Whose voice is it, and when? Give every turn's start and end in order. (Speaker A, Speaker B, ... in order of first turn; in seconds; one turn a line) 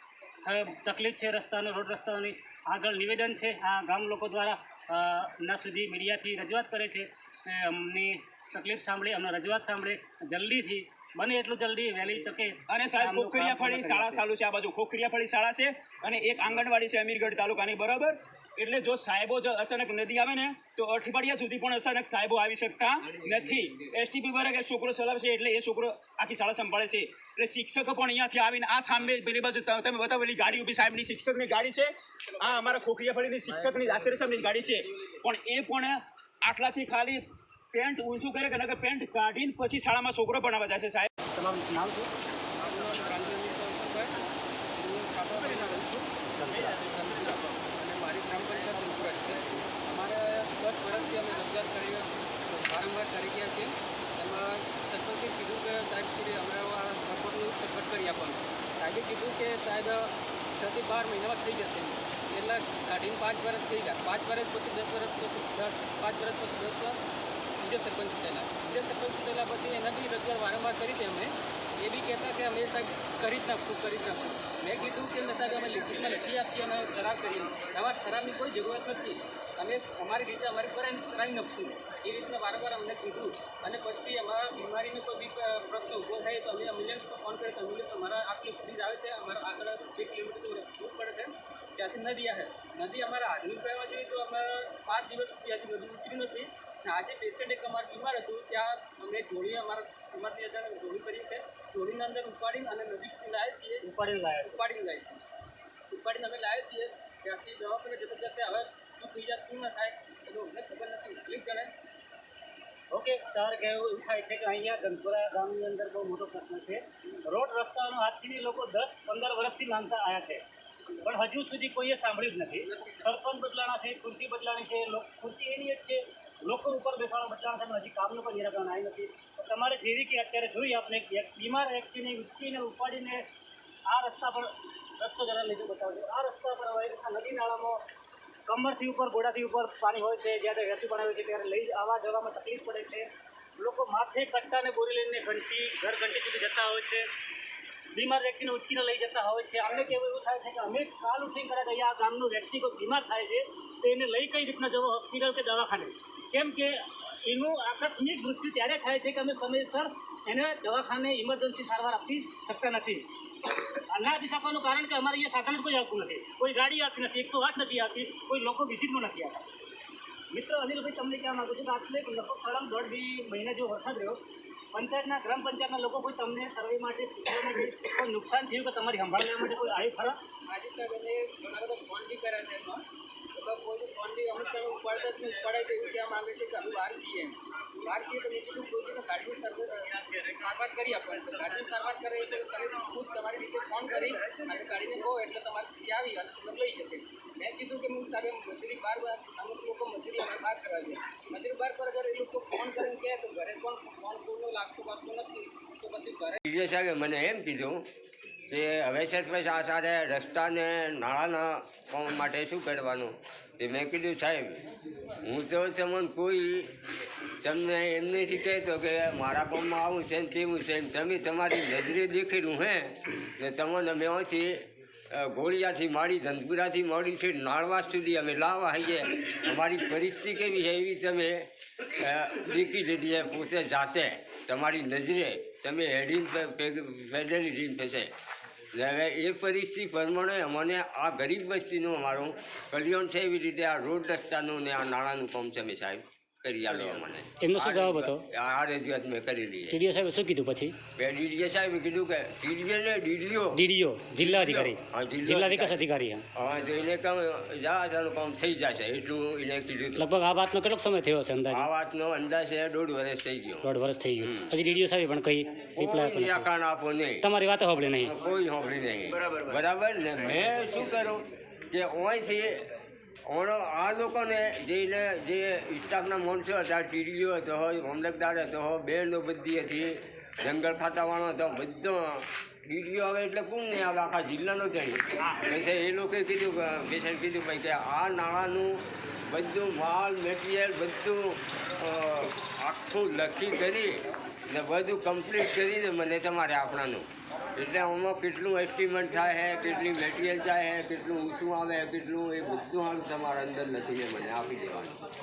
Speaker A: 0.4-14.2
Speaker B: 12.7-41.1
Speaker A: 41.3-42.1
Speaker C: 42.6-44.2
Speaker C: 44.7-67.0
Speaker A: 46.4-46.8
Speaker C: 67.6-103.8
Speaker A: 103.8-104.6
Speaker C: 104.4-105.2
Speaker C: 105.9-111.7
Speaker A: 112.9-120.4
Speaker A: 121.0-133.2
Speaker A: 133.9-137.8
Speaker A: 138.5-147.1
Speaker A: 147.9-163.1
Speaker A: 163.9-169.4
Speaker A: 170.3-174.2
Speaker A: 174.7-180.2
Speaker C: 180.5-206.4
Speaker D: 206.4-207.8
Speaker D: 208.5-214.6
Speaker D: 215.2-216.7
Speaker D: 217.4-224.6
Speaker D: 225.1-238.1
Speaker D: 238.7-249.8
Speaker A: 247.4-248.2
Speaker A: 249.7-250.8
Speaker D: 251.0-253.6
Speaker A: 253.5-256.2
Speaker D: 254.2-255.8
Speaker D: 256.3-260.1
Speaker A: 259.9-261.7
Speaker D: 261.5-263.7
Speaker A: 263.6-266.5
Speaker D: 264.2-264.5
Speaker D: 265.8-267.2
Speaker A: 267.2-268.1
Speaker D: 268.0-272.6
Speaker D: 273.3-288.7
Speaker D: 289.3-294.0
Speaker D: 294.5-305.0